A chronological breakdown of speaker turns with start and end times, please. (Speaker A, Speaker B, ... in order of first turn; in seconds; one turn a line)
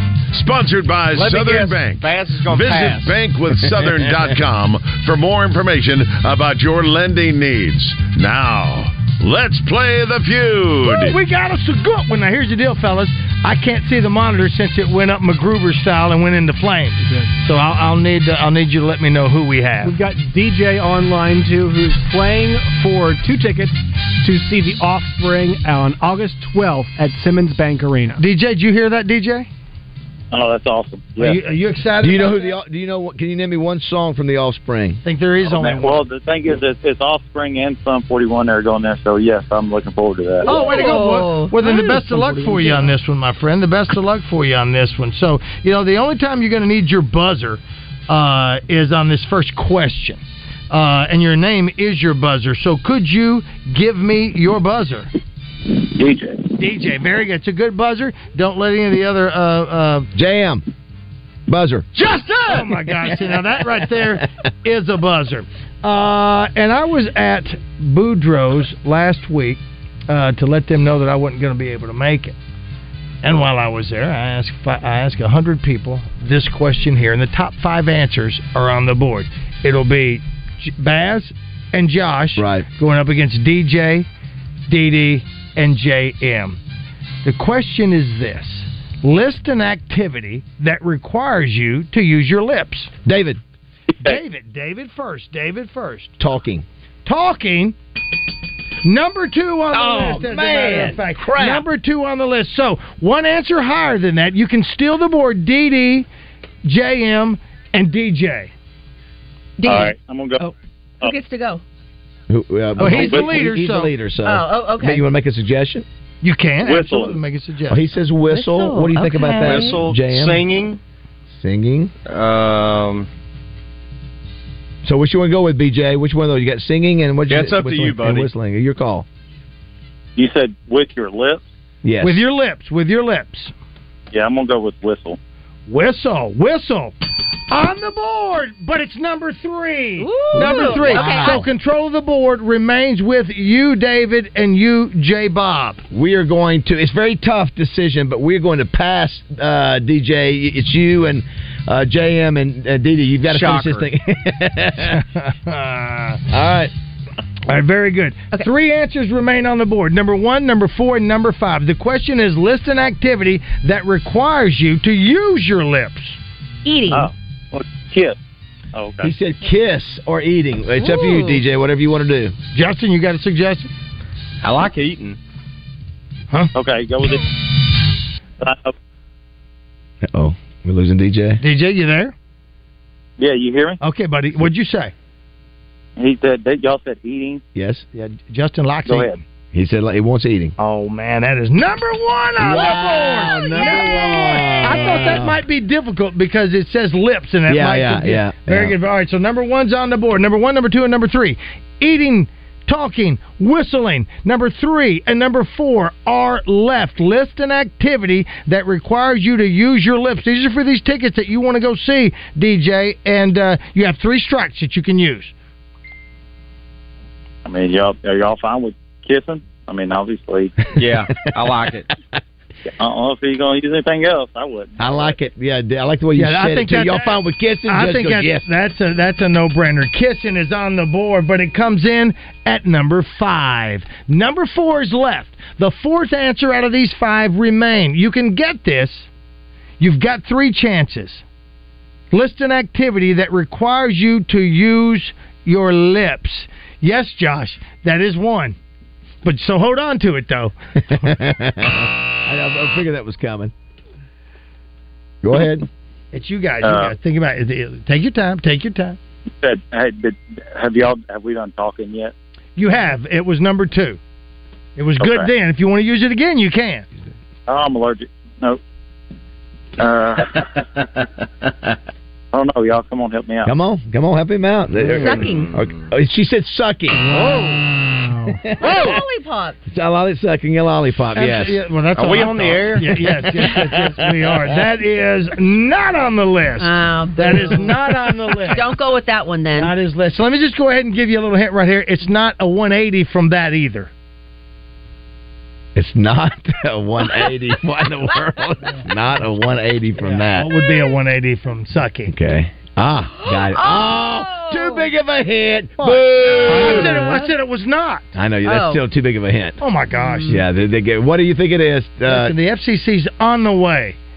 Speaker A: 0.3-11.2
Speaker B: 1.1-3.1
Speaker C: 10.8-19.9
Speaker D: 17.0-17.3
Speaker D: 19.8-28.2
Speaker C: 28.2-29.5
Speaker E: 30.3-31.4
Speaker C: 31.2-32.5
Speaker F: 32.0-35.0
Speaker C: 35.0-36.0
Speaker E: 35.4-40.5
Speaker G: 40.5-42.9
Speaker C: 40.5-55.1
Speaker E: 55.7-56.5
Speaker C: 56.6-60.1
Speaker F: 60.1-60.6
Speaker F: 61.5-61.9
Speaker C: 61.9-72.3
Speaker F: 62.5-63.1
Speaker C: 73.2-84.1
Speaker F: 82.4-82.7
Speaker C: 84.7-86.6
Speaker C: 87.2-92.9
Speaker F: 93.0-93.4
Speaker C: 94.0-96.1
Speaker F: 96.2-96.6
Speaker C: 97.0-97.8
Speaker C: 98.8-106.1
Speaker F: 99.7-101.7
Speaker C: 106.6-108.5
Speaker G: 109.6-111.6
Speaker E: 109.6-110.4
Speaker F: 112.3-115.8
Speaker C: 112.8-113.9
Speaker E: 112.9-113.4
Speaker G: 114.2-115.0
Speaker C: 116.2-117.8
Speaker E: 116.6-117.2
Speaker F: 117.7-120.4
Speaker G: 118.3-119.8
Speaker B: 119.4-120.8
Speaker F: 121.3-121.9
Speaker B: 122.1-123.1
Speaker F: 124.8-129.1
Speaker B: 127.3-128.3
Speaker E: 130.2-131.4
Speaker F: 131.8-132.2
Speaker C: 132.0-133.5
Speaker E: 134.1-135.2
Speaker C: 135.7-136.9
Speaker C: 137.5-145.8
Speaker G: 140.0-141.4
Speaker F: 140.3-141.5
Speaker F: 145.9-155.0
Speaker B: 153.3-153.9
Speaker C: 154.8-156.2
Speaker F: 156.3-156.7
Speaker C: 157.4-166.2
Speaker G: 166.6-167.1
Speaker E: 166.9-168.2
Speaker E: 168.7-169.1
Speaker F: 169.0-172.3
Speaker G: 170.8-171.4
Speaker C: 172.5-173.7
Speaker B: 174.4-175.2
Speaker E: 176.5-177.2
Speaker E: 178.4-178.7
Speaker F: 180.0-181.4
Speaker C: 181.4-182.1
Speaker E: 183.2-183.8
Speaker C: 183.8-184.9
Speaker E: 186.0-187.4
Speaker F: 187.5-187.8
Speaker C: 187.9-189.2
Speaker E: 188.9-189.1
Speaker F: 189.5-190.5
Speaker C: 190.6-215.3
Speaker F: 192.4-195.4
Speaker F: 197.5-198.8
Speaker E: 217.4-220.5
Speaker B: 220.8-221.9
Speaker E: 222.7-225.2
Speaker F: 224.8-228.4
Speaker C: 226.2-239.1
Speaker C: 239.8-241.2
Speaker C: 242.1-248.6
Speaker C: 249.2-250.5
Speaker F: 250.9-253.5
Speaker F: 255.2-255.7
Speaker C: 256.1-259.0
Speaker E: 256.6-256.9
Speaker E: 259.4-262.1
Speaker C: 262.6-264.0
Speaker C: 264.8-266.9
Speaker E: 265.0-265.3
Speaker E: 267.5-268.6
Speaker E: 269.8-270.6
Speaker E: 272.3-273.5
Speaker F: 273.4-277.0
Speaker G: 274.8-275.5
Speaker B: 274.9-275.8
Speaker D: 277.0-278.4
Speaker B: 277.1-277.6
Speaker F: 278.3-279.0
Speaker G: 278.6-279.6
Speaker F: 279.7-281.6
Speaker C: 281.1-288.7
Speaker B: 281.9-282.9
Speaker F: 283.4-284.1
Speaker G: 286.6-287.9
Speaker G: 288.4-289.7
Speaker C: 289.5-293.9
Speaker F: 295.7-300.5
Speaker C: 300.0-302.1
Speaker F: 302.1-307.1
Speaker G: 303.2-304.9
Speaker C: 305.8-308.1
Speaker G: 306.4-307.3
Speaker F: 308.1-309.6
Speaker G: 308.4-308.8
Speaker C: 309.6-310.4
Speaker G: 310.0-310.4
Speaker F: 310.2-312.4
Speaker C: 312.0-314.0